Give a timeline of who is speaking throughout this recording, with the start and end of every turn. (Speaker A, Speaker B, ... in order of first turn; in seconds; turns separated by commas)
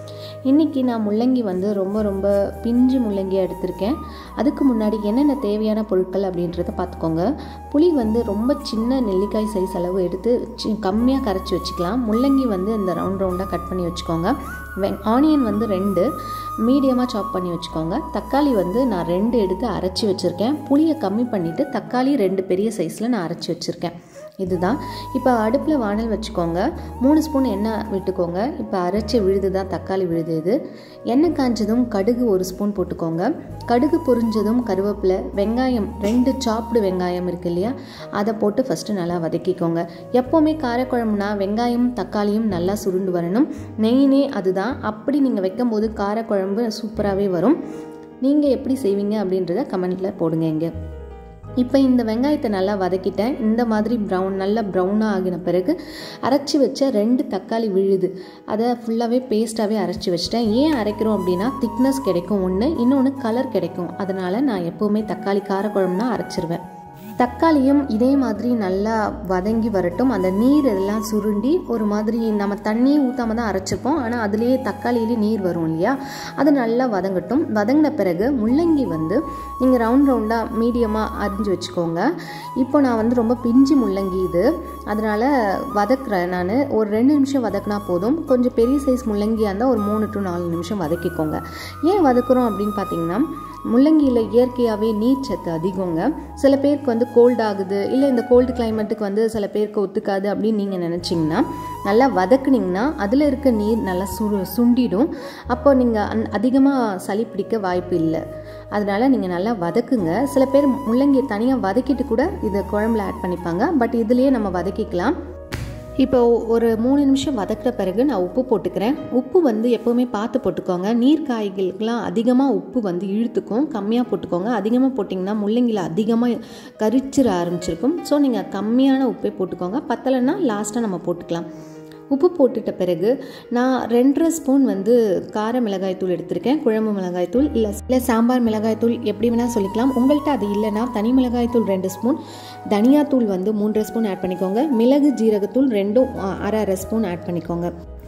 Speaker A: 0.5-16.1, Speaker A: 16.6-30.6, Speaker A: 31.1-47.6, Speaker A: 48.2-50.7, Speaker A: 51.6-66.6, Speaker A: 67.2-82.1, Speaker A: 82.6-108.2, Speaker A: 108.7-115.2, Speaker A: 116.0-131.5, Speaker A: 132.1-142.2, Speaker A: 142.7-147.7